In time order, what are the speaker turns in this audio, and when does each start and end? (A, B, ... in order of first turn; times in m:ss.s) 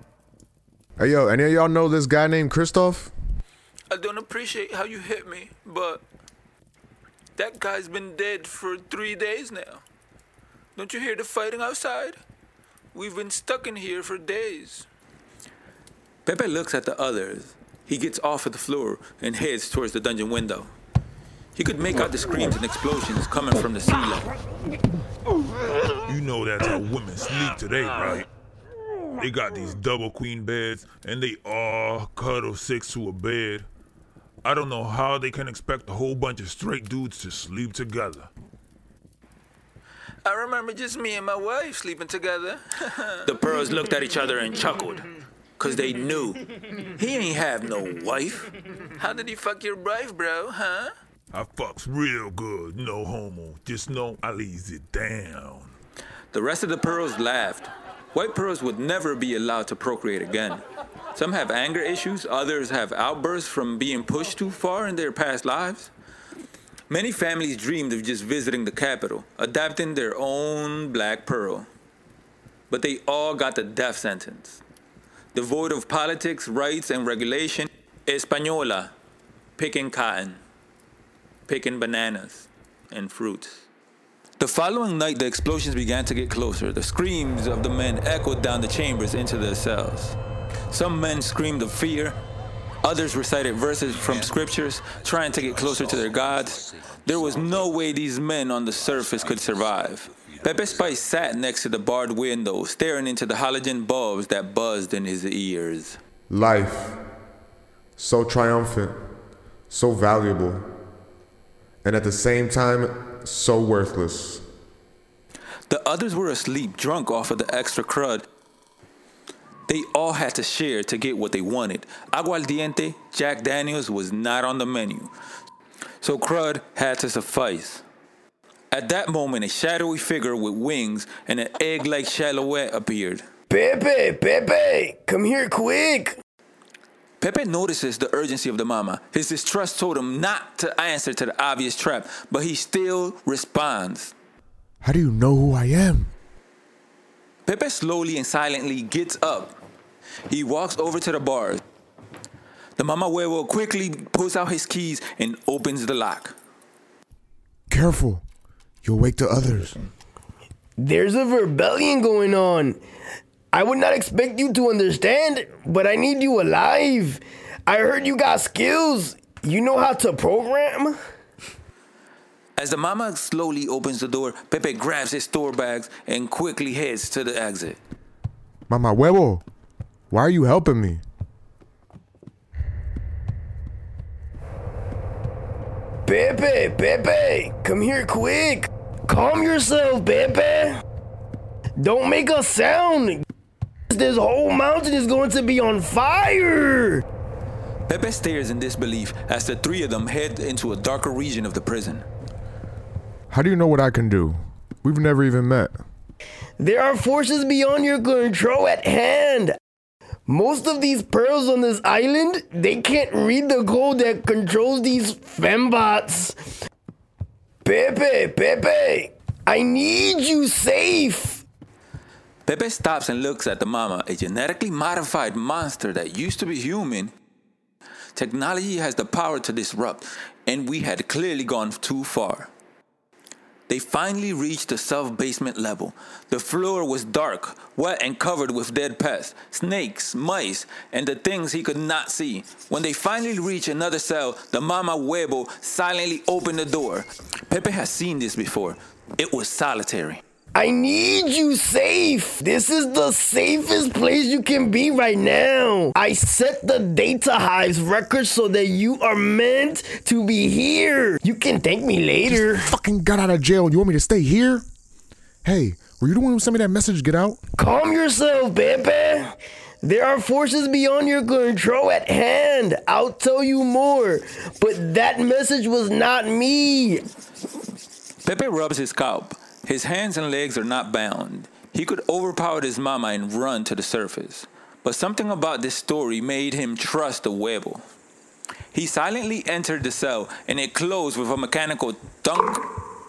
0:01.0-0:03.1 A
0:03.9-0:06.0 B
0:07.4-0:09.8 B
0:10.8-0:12.2 B
0:12.9-0:14.9 B
0:16.2-0:20.7 B
0:21.6-0:24.3 B
0:26.1-0:28.3 C
0:29.2-0:33.7 C
0:34.4-0:38.3 C
0:40.2-0:42.6 B
0:43.2-0:50.9 B
0:51.3-0:55.7 C
0:56.3-1:00.6 B
1:01.1-1:05.9 B
1:06.9-1:11.7 B
1:12.7-1:14.6 B
1:15.3-1:18.9 B
1:19.6-1:20.4 B
1:21.5-1:23.7 B
1:24.4-1:30.2 B
1:30.7-1:32.2 B
1:32.8-1:46.0 B
1:46.3-1:47.0 A
1:48.0-1:49.0 A
1:49.7-1:50.7 A
1:51.8-1:54.4 A
1:55.7-1:58.3 B
1:59.7-2:05.1 B
2:06.0-2:07.8 B
2:08.7-2:13.2 B
2:13.5-2:16.2 D
2:17.2-2:24.1 B
2:24.8-2:26.1 A
2:27.5-2:29.6 B
2:30.3-2:31.6 B
2:32.8-2:36.4 B
2:37.7-2:38.2 A
2:38.8-2:39.8 A
2:40.8-2:42.8 D
2:43.5-2:51.0 D
2:52.6-2:57.8 B
2:58.7-2:59.4 A
3:00.1-3:01.0 A
3:06.1-3:10.8 D
3:11.8-3:13.2 D
3:13.9-3:17.0 D
3:17.9-3:22.1 B
3:23.3-3:25.8 A
3:26.6-3:29.6 D
3:30.3-3:36.4 D
3:37.6-3:41.4 D
3:42.5-3:47.1 B
3:48.2-3:52.5 B
3:53.7-4:10.2 B
4:10.6-4:22.7 D
4:22.3-4:24.6 A
4:25.4-4:27.4 A
4:27.6-4:37.0 D
4:38.2-4:47.8 B
4:48.7-4:52.7 B